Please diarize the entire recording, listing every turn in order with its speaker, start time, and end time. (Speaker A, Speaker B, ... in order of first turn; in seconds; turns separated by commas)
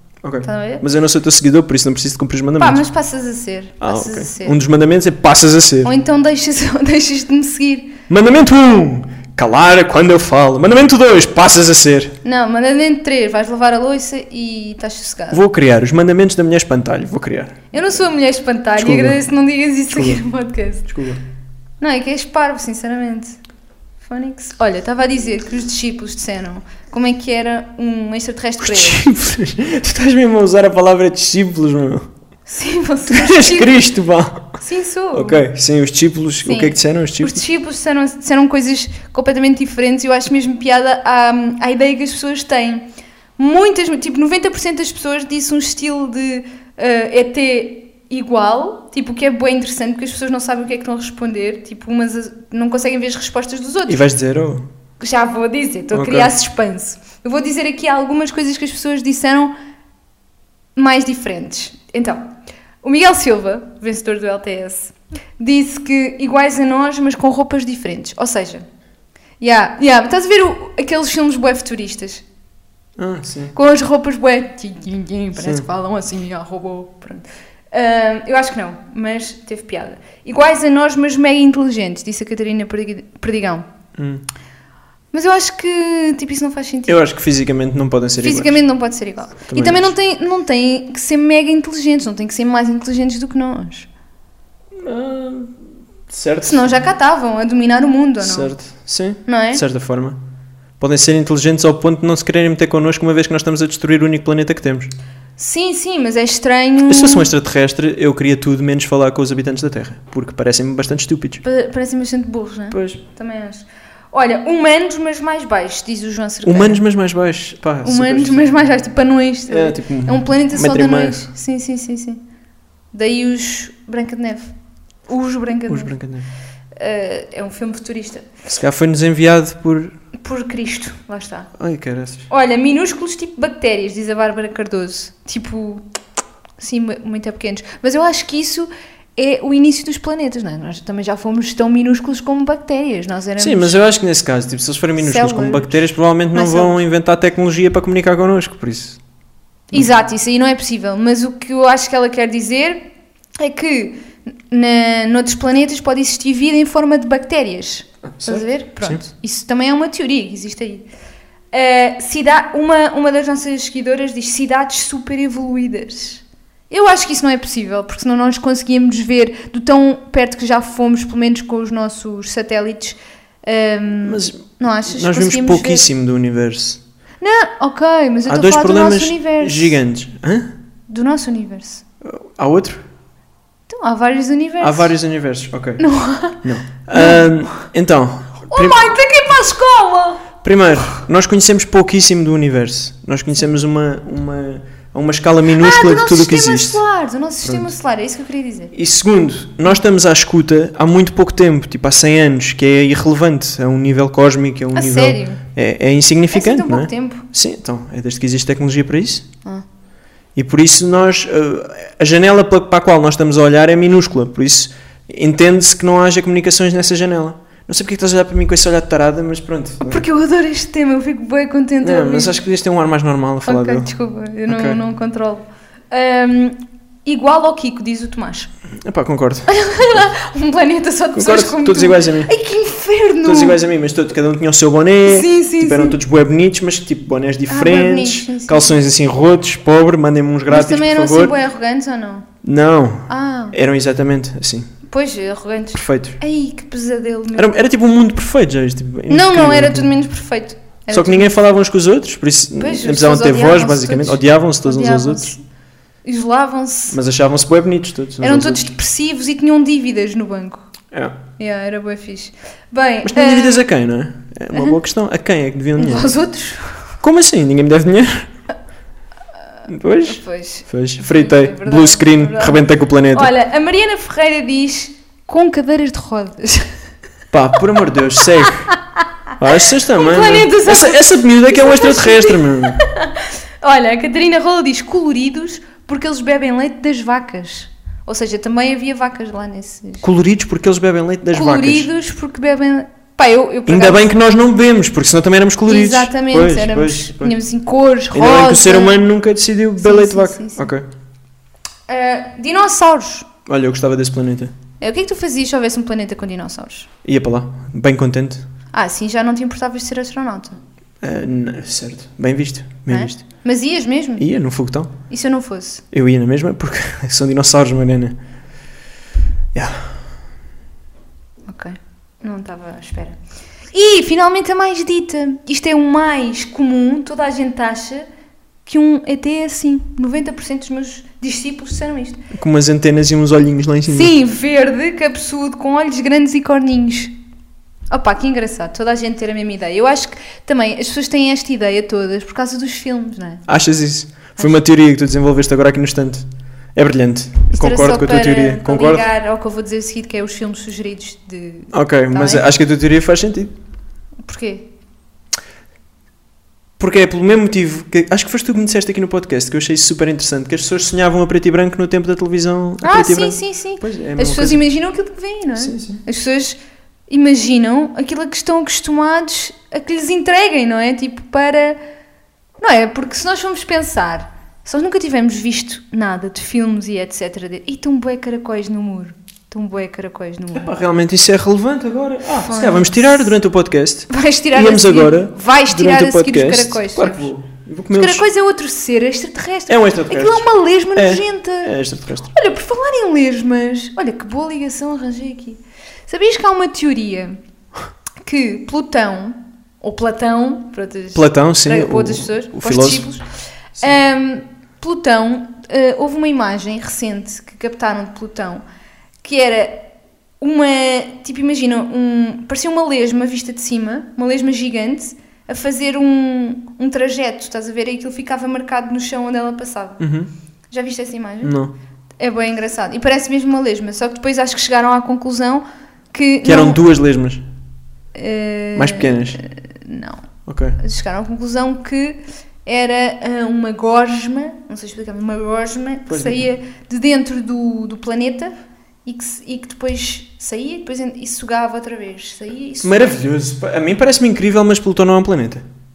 Speaker A: 0.2-2.8, Speaker B: 0.4-0.8, Speaker B: 2.6-4.6, Speaker A: 3.8-5.9, Speaker B: 5.8-8.0, Speaker A: 8.1-12.2, Speaker B: 12.2-15.4, Speaker A: 15.3-17.7, Speaker B: 17.7-20.9, Speaker A: 18.8-19.2, Speaker A: 19.9-20.2, Speaker A: 20.9-21.2, Speaker B: 21.8-23.4, Speaker B: 24.0-29.1, Speaker A: 28.6-32.1, Speaker B: 32.5-33.8, Speaker A: 33.1-34.6, Speaker B: 34.6-35.4, Speaker A: 35.1-37.4, Speaker B: 36.5-54.0, Speaker A: 53.9-54.7, Speaker B: 55.0-59.5, Speaker A: 55.9-56.3, Speaker B: 60.8-62.3, Speaker B: 62.8-68.7, Speaker B: 69.4-72.2, Speaker A: 73.0-73.6, Speaker B: 73.5-83.7, Speaker A: 75.4-75.7, Speaker A: 84.0-84.2, Speaker B: 85.1-87.0, Speaker A: 86.9-88.6, Speaker B: 88.2-93.9, Speaker A: 89.5-89.9, Speaker A: 94.8-95.5, Speaker A: 96.1-96.8, Speaker B: 96.4-98.5, Speaker A: 98.2-100.2, Speaker B: 99.3-99.6, Speaker A: 100.8-104.9, Speaker B: 105.4-107.3, Speaker A: 106.9-111.4, Speaker B: 111.4-116.8, Speaker A: 112.7-113.0, Speaker A: 116.4-118.6, Speaker B: 117.8-122.2, Speaker A: 119.5-121.2, Speaker B: 122.9-124.5, Speaker B: 125.1-125.9, Speaker A: 125.7-126.3, Speaker B: 126.8-128.3, Speaker A: 128.5-129.9, Speaker B: 130.2-131.5, Speaker A: 131.6-132.3, Speaker B: 132.3-135.8, Speaker B: 136.6-143.8, Speaker A: 143.4-149.0, Speaker B: 145.0-145.8, Speaker B: 146.3-146.8, Speaker B: 149.7-152.8, Speaker B: 153.4-160.9, Speaker A: 158.1-159.0, Speaker B: 161.5-175.9, Speaker A: 174.0-176.8, Speaker B: 177.2-179.8, Speaker A: 178.3-180.5, Speaker B: 180.9-181.8, Speaker A: 182.0-182.8, Speaker B: 183.7-184.9, Speaker A: 184.6-185.8, Speaker B: 185.8-187.3, Speaker A: 186.4-188.9, Speaker B: 188.5-190.3, Speaker A: 190.4-196.8, Speaker B: 195.5-198.7, Speaker A: 197.4-197.7, Speaker A: 198.7-209.3, Speaker B: 204.7-205.4, Speaker B: 206.3-207.3, Speaker A: 210.4-220.0, Speaker B: 219.8-222.4, Speaker A: 221.8-223.9, Speaker B: 223.5-228.5, Speaker A: 224.5-224.8, Speaker A: 228.8-229.5, Speaker B: 229.5-233.6, Speaker A: 231.2-232.3, Speaker A: 233.2-241.4, Speaker B: 235.1-236.0, Speaker B: 237.5-238.8, Speaker B: 240.5-242.3, Speaker A: 242.4-244.7, Speaker B: 243.1-243.6, Speaker B: 244.9-247.6, Speaker A: 245.7-246.2, Speaker A: 247.3-249.9, Speaker B: 249.1-251.3, Speaker A: 250.9-255.3, Speaker B: 252.6-255.4, Speaker B: 256.1-257.0, Speaker A: 256.9-258.7, Speaker B: 258.2-260.7, Speaker A: 260.9-261.2, Speaker B: 261.4-263.7, Speaker A: 263.0-266.1, Speaker B: 264.5-264.8, Speaker B: 265.8-266.9, Speaker A: 267.0-268.3, Speaker A: 269.7-273.3, Speaker B: 270.1-276.7, Speaker A: 277.3-278.7, Speaker B: 278.2-279.0, Speaker A: 279.4-282.8, Speaker B: 279.7-290.1, Speaker A: 290.0-291.9, Speaker B: 291.3-294.1, Speaker A: 293.7-297.4, Speaker B: 295.7-299.0, Speaker A: 298.1-300.9, Speaker B: 299.8-300.7, Speaker B: 301.9-303.3, Speaker A: 303.5-304.5, Speaker B: 304.8-306.9, Speaker A: 307.0-308.5, Speaker B: 308.7-310.6, Speaker A: 311.0-313.2, Speaker B: 312.9-314.3, Speaker A: 314.2-314.9, Speaker B: 315.1-315.8, Speaker A: 315.9-318.2, Speaker A: 319.5-319.9, Speaker B: 321.5-323.2, Speaker B: 323.7-328.1, Speaker B: 328.7-332.2, Speaker A: 332.3-334.1, Speaker B: 333.9-337.1, Speaker B: 337.9-343.4, Speaker A: 343.5-346.2, Speaker A: 346.8-349.1, Speaker B: 347.5-352.5, Speaker A: 351.7-353.5, Speaker B: 354.2-354.7, Speaker A: 356.8-364.7, Speaker B: 362.8-371.8, Speaker A: 365.6-366.0, Speaker B: 372.6-380.7, Speaker A: 380.5-388.2, Speaker B: 382.3-383.4, Speaker B: 384.1-387.3, Speaker B: 387.9-391.8, Speaker A: 389.7-392.3, Speaker B: 392.3-397.4, Speaker B: 398.2-403.2, Speaker A: 401.1-403.1, Speaker B: 403.8-408.6, Speaker B: 409.2-409.9, Speaker B: 410.4-420.1, Speaker A: 420.0-420.3, Speaker B: 420.7-421.6, Speaker A: 421.4-421.7, Speaker B: 422.2-426.8, Speaker A: 426.4-427.4, Speaker B: 428.1-430.2, Speaker A: 428.8-429.4, Speaker A: 430.5-430.8, Speaker B: 430.8-438.5, Speaker A: 436.1-436.5, Speaker B: 439.1-443.2, Speaker A: 442.8-445.6